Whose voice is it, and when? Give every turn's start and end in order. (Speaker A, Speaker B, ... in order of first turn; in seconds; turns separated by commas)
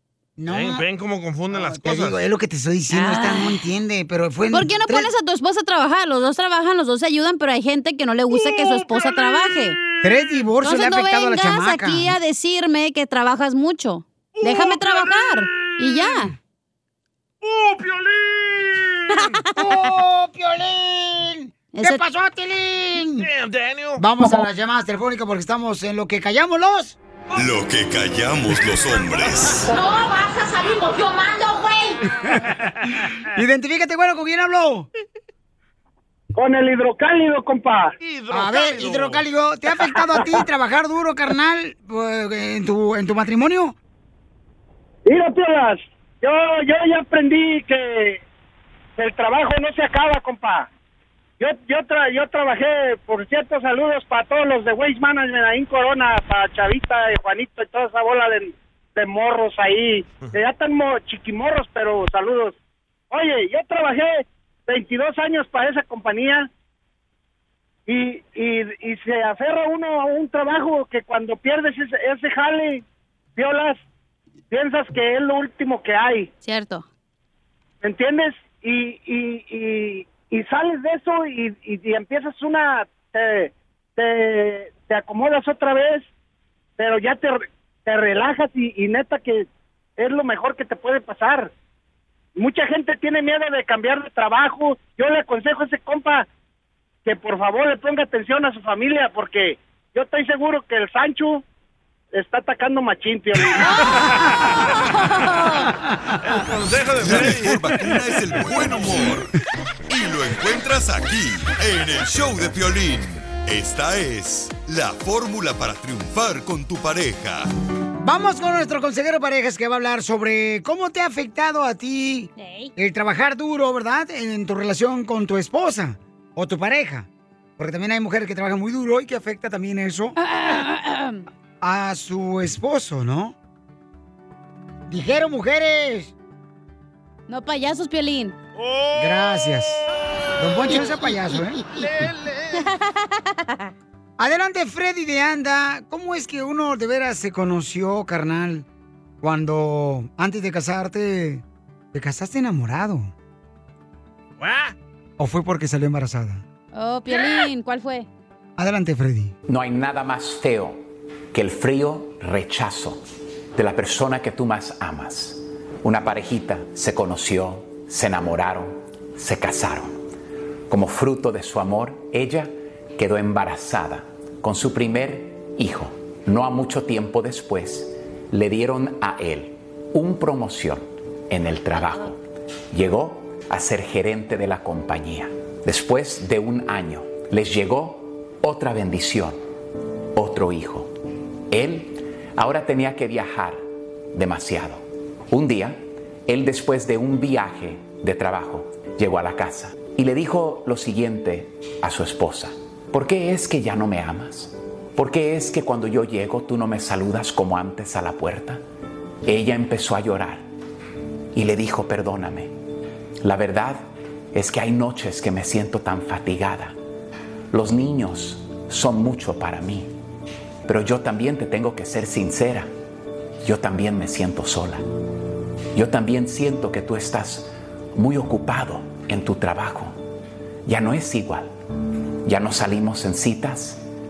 Speaker A: 0.4-0.8, Speaker B: 0.5-2.2, Speaker A: 1.5-5.1, Speaker C: 2.9-3.6, Speaker C: 4.5-9.8, Speaker B: 8.3-10.5, Speaker A: 10.0-12.2, Speaker C: 10.6-16.3, Speaker B: 14.3-16.3, Speaker B: 17.4-19.4, Speaker C: 19.1-19.4, Speaker A: 19.6-23.3, Speaker C: 21.7-22.0, Speaker B: 23.2-24.0, Speaker A: 24.0-27.0, Speaker D: 27.4-29.7, Speaker E: 29.7-32.0, Speaker A: 32.2-34.9, Speaker F: 36.3-37.9, Speaker B: 38.0-39.2, Speaker A: 38.3-43.7, Speaker F: 45.0-48.2, Speaker F: 49.0-50.7, Speaker F: 51.4-62.5, Speaker F: 63.1-66.5, Speaker F: 67.9-72.8, Speaker F: 73.3-73.8, Speaker F: 74.5-76.3, Speaker C: 76.4-76.8, Speaker F: 77.8-86.0, Speaker F: 86.8-89.5, Speaker F: 90.0-91.5, Speaker F: 92.3-96.2, Speaker F: 97.0-101.4, Speaker F: 102.1-103.6, Speaker B: 103.5-104.7, Speaker C: 103.5-105.7, Speaker B: 106.2-107.9, Speaker D: 107.0-109.3, Speaker D: 109.9-117.5, Speaker A: 118.0-130.2, Speaker C: 122.4-122.7, Speaker C: 130.2-131.2, Speaker A: 131.6-133.3, Speaker A: 134.9-136.1, Speaker C: 137.3-138.3, Speaker B: 138.6-141.1, Speaker A: 138.9-139.8, Speaker A: 140.4-141.7, Speaker B: 141.7-142.7, Speaker A: 144.2-148.7, Speaker A: 149.2-153.1, Speaker B: 154.4-154.7, Speaker A: 155.2-156.4, Speaker C: 156.7-158.1, Speaker A: 158.6-159.3, Speaker G: 159.5-163.0, Speaker G: 163.5-170.0, Speaker G: 170.7-182.2, Speaker G: 182.7-189.4, Speaker G: 190.1-190.9, Speaker G: 191.5-193.6, Speaker G: 194.1-208.6, Speaker G: 209.2-210.4, Speaker G: 211.3-212.5, Speaker G: 213.2-216.7, Speaker G: 217.5-219.9, Speaker G: 220.6-222.7, Speaker G: 223.4-224.8, Speaker G: 225.7-230.0, Speaker G: 230.7-231.5, Speaker G: 232.2-233.8